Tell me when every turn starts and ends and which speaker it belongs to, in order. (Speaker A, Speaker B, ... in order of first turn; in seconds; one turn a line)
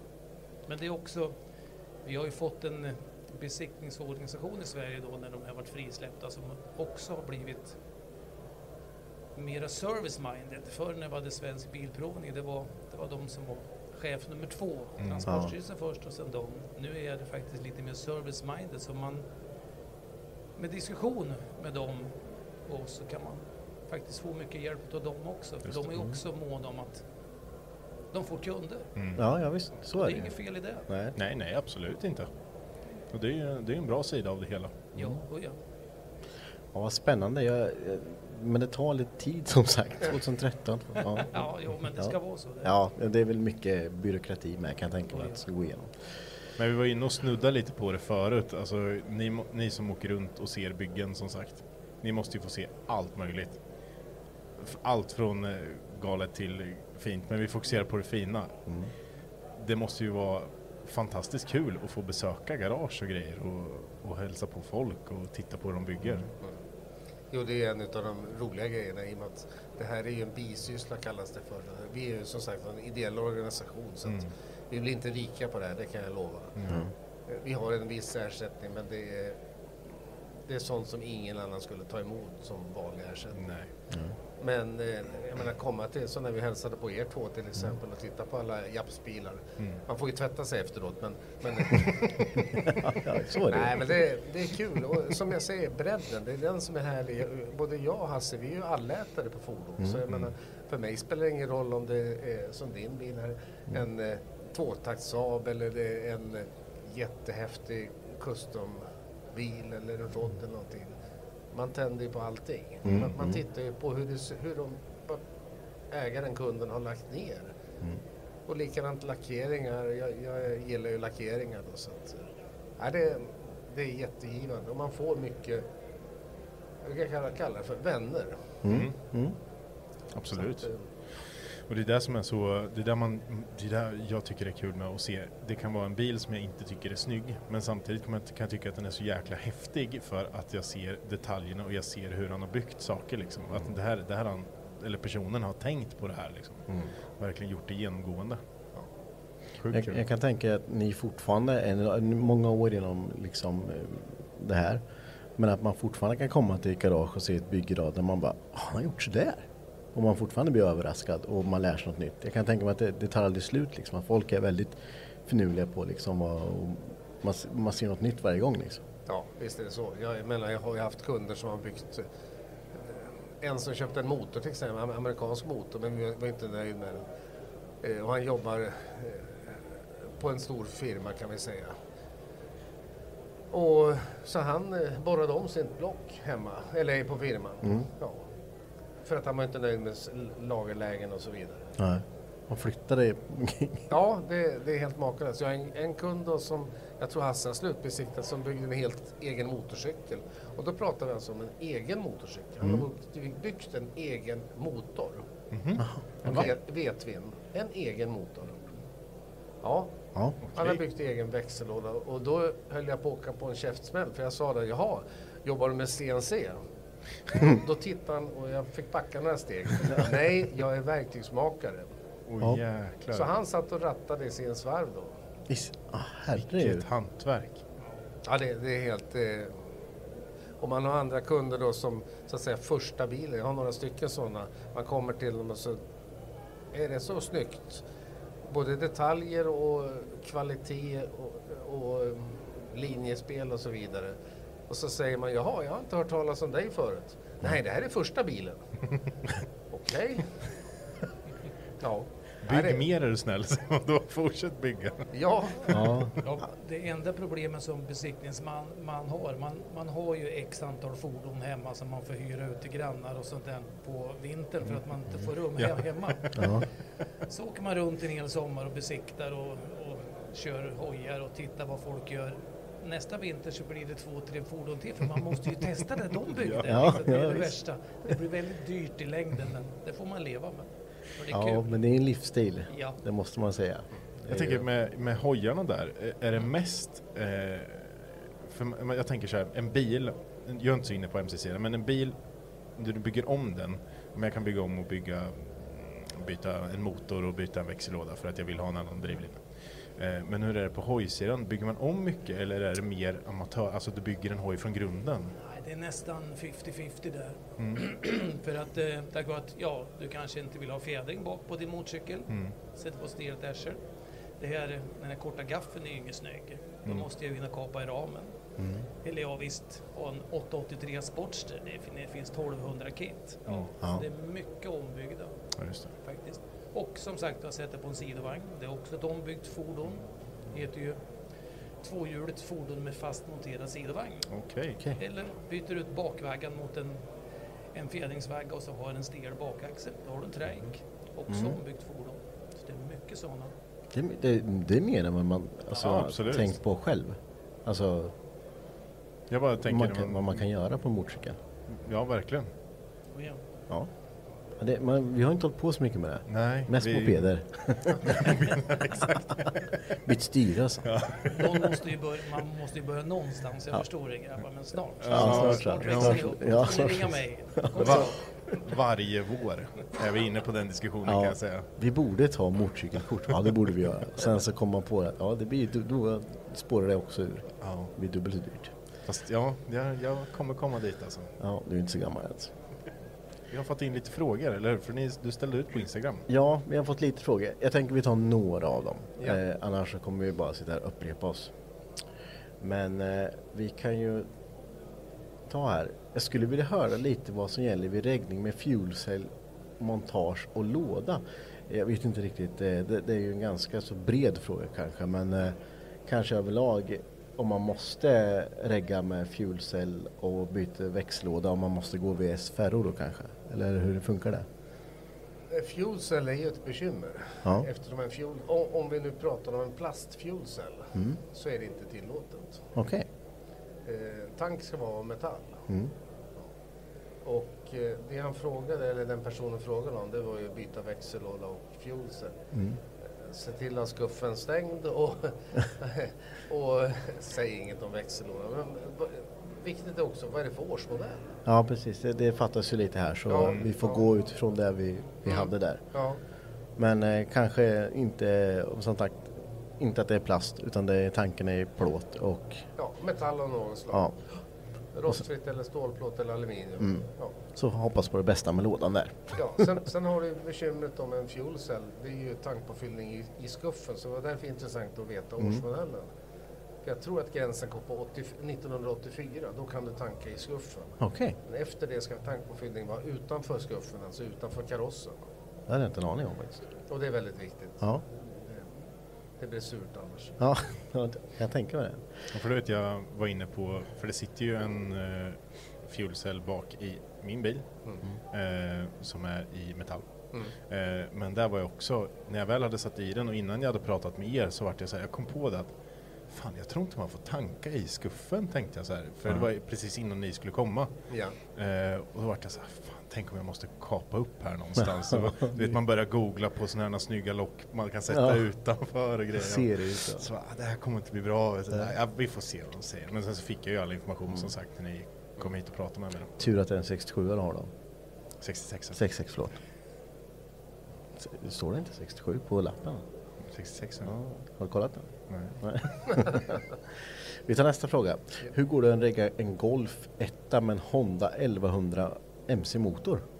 Speaker A: 0.7-1.3
Speaker A: 2.0-7.8
Speaker A: 9.3-19.2
Speaker B: 15.0-15.3
Speaker C: 15.2-15.5
Speaker A: 20.6-27.0
Speaker C: 25.8-26.1
Speaker A: 28.1-28.9
Speaker C: 29.1-30.3
Speaker A: 29.9-30.9
Speaker C: 30.9-31.1
Speaker B: 31.1-32.3
Speaker B: 33.1-34.9
Speaker A: 34.9-35.6
Speaker C: 36.7-45.9
Speaker A: 41.2-42.7
Speaker A: 45.1-45.4
Speaker B: 46.6-53.6
Speaker B: 54.6-58.6
Speaker B: 59.6-66.2
Speaker D: 67.3-76.5
Speaker C: 76.7-76.9
Speaker D: 77.3-79.4
Speaker D: 80.5-83.5
Speaker B: 83.4-83.7
Speaker D: 84.4-92.6
Speaker C: 92.7-94.0
Speaker D: 93.5-108.8
Speaker D: 109.3-110.9
Speaker D: 111.5-115.2
Speaker C: 112.8-113.4
Speaker D: 115.9-117.5
Speaker D: 118.5-122.2
Speaker D: 122.8-125.6
Speaker D: 126.8-128.6
Speaker C: 128.6-129.3
Speaker B: 128.7-128.9
Speaker B: 130.1-130.7
Speaker D: 130.5-130.8
Speaker B: 131.7-146.6
Speaker B: 147.2-148.4
Speaker B: 149.6-150.0
Speaker C: 149.7-154.8
Speaker C: 155.4-168.8
Speaker D: 169.1-172.1
Speaker D: 172.7-177.0
Speaker D: 177.8-179.6
Speaker D: 180.2-181.7
Speaker D: 183.5-188.2
Speaker C: 187.6-187.9
Speaker D: 189.0-191.7
Speaker C: 191.8-193.9
Speaker D: 193.9-205.3
Speaker B: 205.5-206.4
Speaker C: 205.8-206.5
Speaker D: 206.2-208.7
Speaker D: 209.6-209.9
Speaker B: 210.4-210.8
Speaker D: 210.6-216.6
Speaker D: 217.4-221.9
Speaker B: 222.3-223.3
Speaker D: 223.1-225.2
Speaker C: 225.5-226.8
Speaker B: 226.4-227.6
Speaker D: 228.2-229.6
Speaker D: 230.6-235.8
Speaker D: 236.7-237.8
Speaker D: 238.4-244.2
Speaker D: 244.7-248.6
Speaker D: 249.7-250.2
Speaker D: 251.8-252.8
Speaker B: 252.4-255.0
Speaker D: 255.1-255.7
Speaker C: 255.7-256.1
Speaker A: 256.2-266.2
Speaker B: 265.5-266.4
Speaker C: 266.3-266.6
Speaker A: 267.3-281.7
Speaker B: 276.3-276.9
Speaker C: 276.6-277.6
Speaker C: 281.3-284.6
Speaker A: 282.7-283.0
Speaker B: 284.3-292.1
Speaker B: 292.8-299.4
Speaker B: 300.0-305.3
Speaker A: 305.4-313.8
Speaker B: 307.6-307.8
Speaker A: 314.4-318.3
Speaker C: 318.6-318.9
Speaker A: 319.0-325.3
Speaker C: 323.8-324.0
Speaker B: 325.6-325.9
Speaker A: 326.0-330.0
Speaker A: 330.5-331.0
Speaker A: 331.8-334.2
Speaker B: 334.3-334.8
Speaker A: 335.0-337.0
Speaker A: 337.7-343.5
Speaker C: 341.3-341.6
Speaker C: 343.9-348.1
Speaker B: 345.8-346.5
Speaker B: 349.3-350.4
Speaker C: 349.6-351.4
Speaker B: 351.7-352.5
Speaker A: 353.1-353.4
Speaker C: 354.6-358.8
Speaker B: 356.3-357.2
Speaker B: 358.1-359.1
Speaker C: 360.0-360.9
Speaker B: 360.9-361.7
Speaker A: 361.3-368.2
Speaker B: 365.0-366.4
Speaker C: 365.0-368.1
Speaker B: 367.8-371.7
Speaker C: 371.0-378.7
Speaker B: 377.6-377.9
Speaker B: 379.1-381.3
Speaker C: 381.4-382.5
Speaker B: 383.5-386.2
Speaker C: 386.3-391.5
Speaker C: 392.6-394.3
Speaker C: 395.5-414.4
Speaker D: 415.5-422.6
Speaker C: 420.9-421.2
Speaker C: 422.8-423.1
Speaker D: 423.8-425.6
Speaker D: 427.2-432.4
Speaker C: 432.5-432.8
Speaker D: 433.2-441.4
Speaker C: 441.4-445.8
Speaker D: 443.3-444.0
Speaker D: 445.3-446.2
Speaker C: 446.8-452.6
Speaker D: 452.8-454.1
Speaker D: 454.9-457.4
Speaker C: 456.8-457.0
Speaker C: 457.6-459.7
Speaker D: 459.3-466.1
Speaker D: 466.8-475.2
Speaker C: 471.0-471.4
Speaker C: 475.7-476.7
Speaker D: 476.9-478.7
Speaker D: 479.4-480.4
Speaker C: 480.4-482.1
Speaker B: 482.3-487.6
Speaker B: 488.3-490.1
Speaker B: 490.7-495.7
Speaker B: 496.3-500.9
Speaker D: 501.1-501.4
Speaker B: 501.5-516.3
Speaker C: 505.0-505.8
Speaker C: 508.1-508.5
Speaker C: 509.4-510.2
Speaker C: 516.4-517.7
Speaker B: 518.4-519.0
Speaker C: 518.9-519.6
Speaker C: 521.2-523.0
Speaker B: 523.5-524.1
Speaker C: 524.0-526.6
Speaker B: 525.3-525.5
Speaker C: 527.5-533.2